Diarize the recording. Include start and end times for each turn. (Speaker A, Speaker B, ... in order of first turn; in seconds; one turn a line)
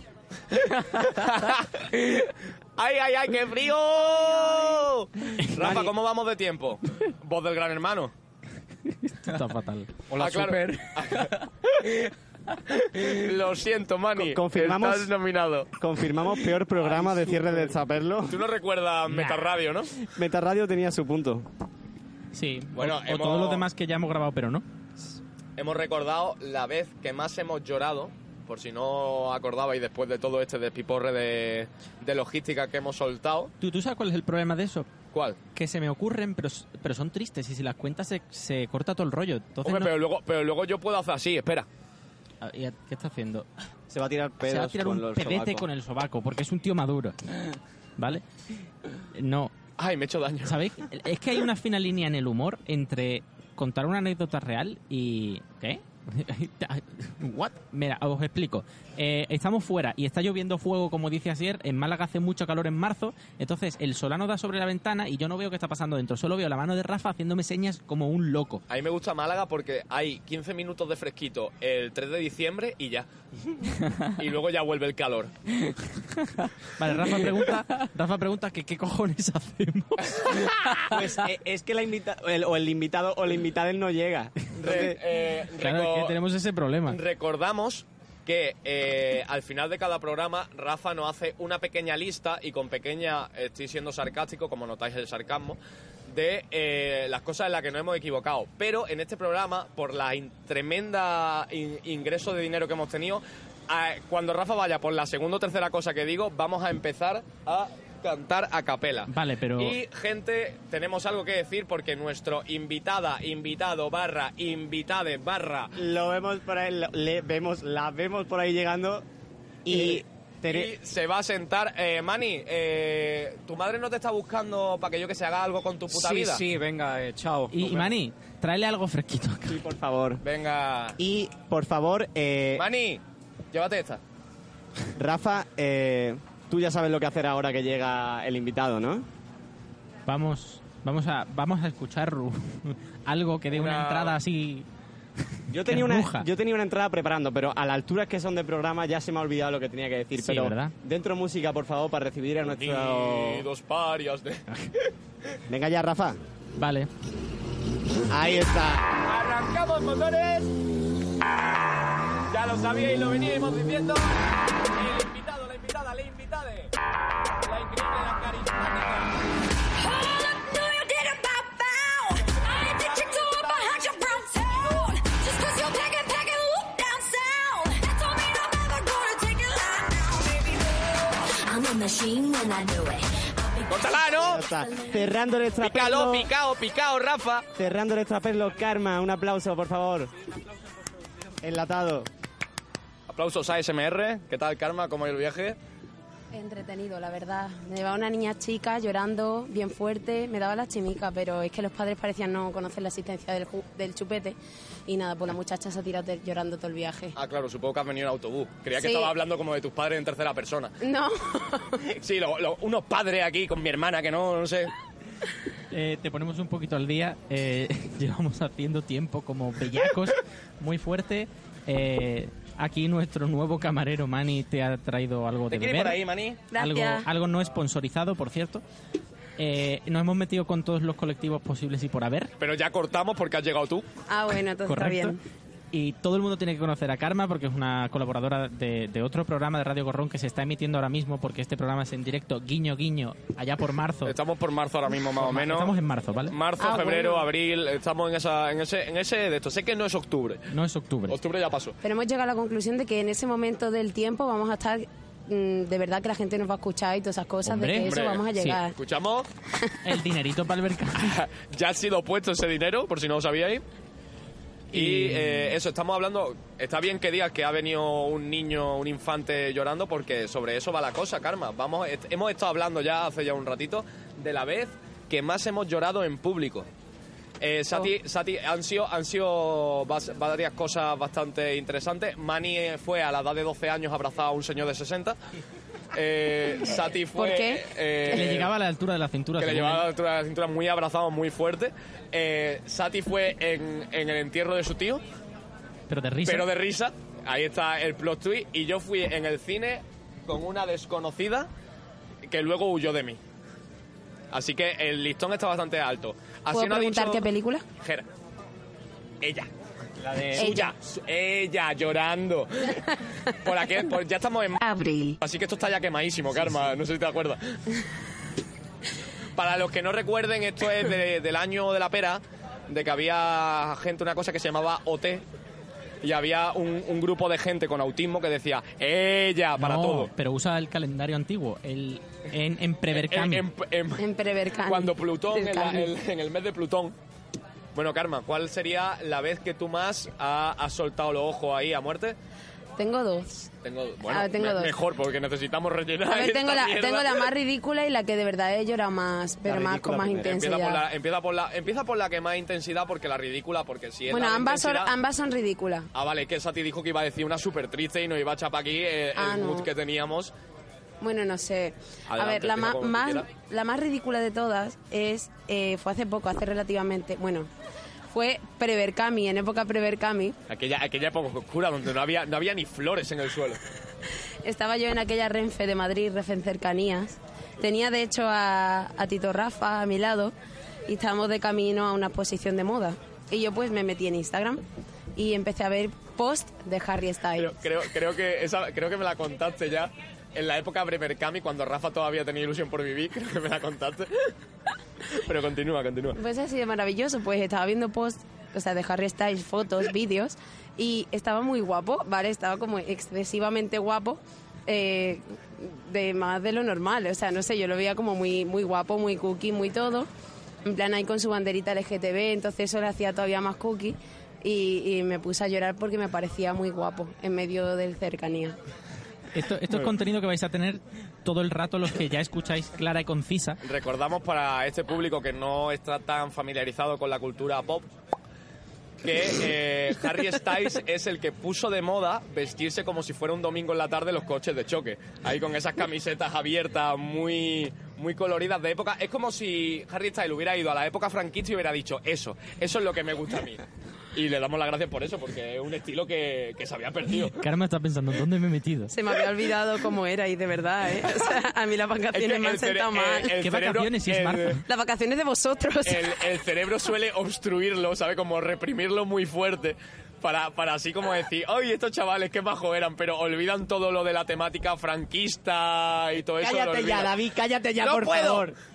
Speaker A: 0.5-8.1
Speaker B: 5.6-5.9
Speaker C: 9.0-9.9
Speaker D: 10.1-10.9
Speaker A: 10.2-12.1
Speaker A: 12.7-15.7
Speaker B: 14.2-15.1
Speaker B: 15.8-18.4
Speaker D: 16.8-17.7
Speaker A: 18.3-19.9
Speaker C: 19.1-19.4
Speaker B: 20.1-21.5
Speaker C: 22.3-24.6
Speaker A: 22.8-23.7
Speaker A: 25.6-33.5
Speaker C: 33.6-34.9
Speaker A: 35.1-35.4
Speaker C: 35.5-39.9
Speaker A: 39.6-41.7
Speaker C: 42.4-43.5
Speaker B: 43.9-45.7
Speaker C: 44.5-47.2
Speaker C: 48.0-48.2
Speaker C: 49.1-49.5
Speaker A: 49.8-50.5
Speaker C: 50.5-68.6
Speaker A: 68.7-73.1
Speaker A: 74.2-75.3
Speaker C: 76.8-80.9
Speaker B: 80.8-85.0
Speaker A: 84.6-86.2
Speaker C: 85.6-87.0
Speaker A: 86.9-115.8
Speaker C: 109.1-109.8
Speaker B: 115.8-119.0
Speaker B: 119.7-120.7
Speaker A: 119.7-126.4
Speaker D: 125.9-127.9
Speaker C: 127.5-129.6
Speaker B: 129.5-130.2
Speaker A: 130.2-131.0
Speaker B: 131.0-132.7
Speaker A: 132.6-133.0
Speaker A: 133.5-134.0
Speaker B: 135.0-139.1
Speaker C: 140.1-144.7
Speaker A: 143.5-144.2
Speaker B: 145.5-153.5
Speaker C: 145.5-146.3
Speaker C: 150.2-150.7
Speaker A: 152.5-154.9
Speaker B: 155.5-156.2
Speaker C: 156.6-156.9
Speaker B: 158.1-158.9
Speaker A: 159.0-160.5
Speaker A: 162.3-166.7
Speaker A: 167.4-169.1
Speaker E: 169.8-180.6
Speaker A: 172.9-173.9
Speaker E: 181.2-185.1
Speaker A: 183.7-184.4
Speaker B: 184.1-186.3
Speaker A: 185.6-187.4
Speaker B: 187.6-190.1
Speaker B: 191.4-192.1
Speaker A: 193.1-195.6
Speaker F: 196.3-207.2
Speaker A: 207.2-210.7
Speaker F: 208.8-209.1
Speaker F: 210.8-211.9
Speaker A: 211.9-214.7
Speaker C: 215.7-226.0
Speaker A: 225.5-226.4
Speaker F: 226.5-227.1
Speaker C: 226.5-228.6
Speaker C: 229.4-232.3
Speaker A: 232.4-233.9
Speaker F: 234.1-235.2
Speaker C: 234.7-235.2
Speaker C: 235.7-244.2
Speaker A: 244.1-245.7
Speaker C: 245.2-246.3
Speaker A: 246.3-250.5
Speaker F: 246.6-247.3
Speaker C: 250.5-251.2
Speaker A: 251.1-251.8
Speaker F: 251.8-258.8
Speaker C: 257.4-258.6
Speaker A: 257.8-259.3
Speaker C: 259.8-261.2
Speaker A: 261.0-263.6
Speaker C: 264.7-265.5
Speaker A: 264.7-276.7
Speaker A: 277.4-285.2
Speaker A: 285.9-288.5
Speaker F: 287.1-287.7
Speaker C: 288.1-289.9
Speaker A: 289.4-295.0
Speaker C: 295.9-296.5
Speaker A: 296.3-301.5
Speaker A: 302.3-303.2
Speaker A: 304.3-307.2
Speaker F: 306.5-307.6
Speaker A: 307.8-308.1
Speaker A: 309.2-309.5
Speaker B: 310.0-310.6
Speaker A: 310.4-314.6
Speaker F: 310.4-310.7
Speaker E: 314.6-315.2
Speaker A: 315.2-317.6
Speaker A: 319.4-325.2
Speaker A: 326.0-330.1
Speaker C: 329.6-333.4
Speaker A: 332.9-334.1
Speaker F: 334.0-335.9
Speaker A: 334.7-336.9
Speaker A: 337.8-342.2
Speaker F: 342.8-343.5
Speaker A: 343.6-347.3
Speaker F: 344.1-344.8
Speaker F: 346.1-350.8
Speaker B: 349.4-350.4
Speaker A: 350.2-354.9
Speaker F: 354.1-355.9
Speaker A: 355.9-360.3
Speaker F: 359.2-359.7
Speaker F: 361.0-367.5
Speaker A: 362.1-363.2
Speaker F: 368.1-370.4
Speaker A: 370.5-373.6
Speaker F: 374.4-380.3
Speaker F: 380.9-384.6
Speaker F: 385.2-387.6
Speaker A: 387.4-394.3
Speaker A: 395.1-396.2
Speaker F: 396.2-410.1
Speaker F: 410.7-418.6
Speaker C: 419.3-423.6
Speaker A: 423.6-427.9
Speaker A: 429.0-443.6
Speaker A: 444.1-447.4
Speaker C: 447.3-448.9
Speaker F: 448.9-453.4
Speaker A: 452.1-454.6
Speaker C: 453.4-454.6
Speaker F: 454.7-456.3
Speaker A: 455.9-467.1
Speaker B: 466.4-468.6
Speaker A: 467.8-468.5